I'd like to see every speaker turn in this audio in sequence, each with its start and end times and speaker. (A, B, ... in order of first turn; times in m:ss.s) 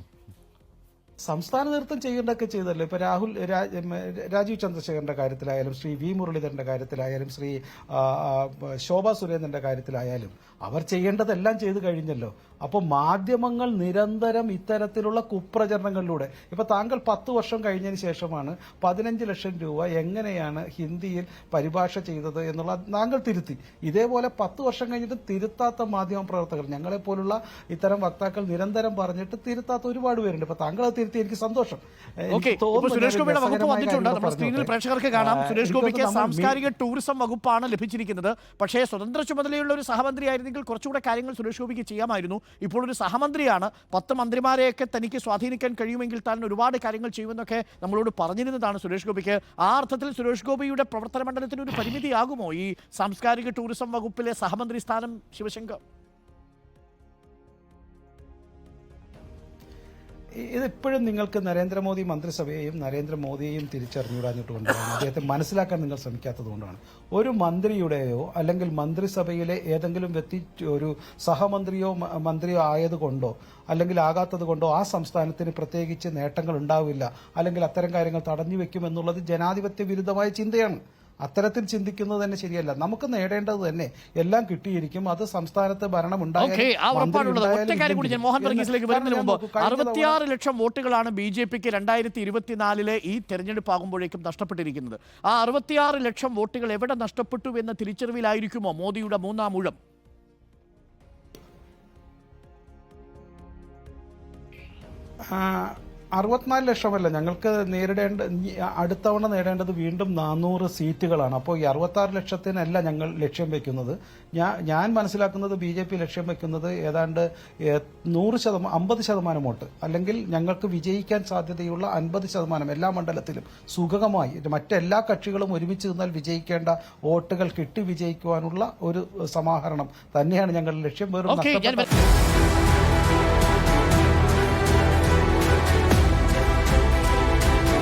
0:01.2-0:36.6 A
0:32.3-0:55.8 B
1:00.4-1:30.2 A
1:26.4-1:39.8 B
1:45.3-2:12.1 A
2:11.3-2:11.9 B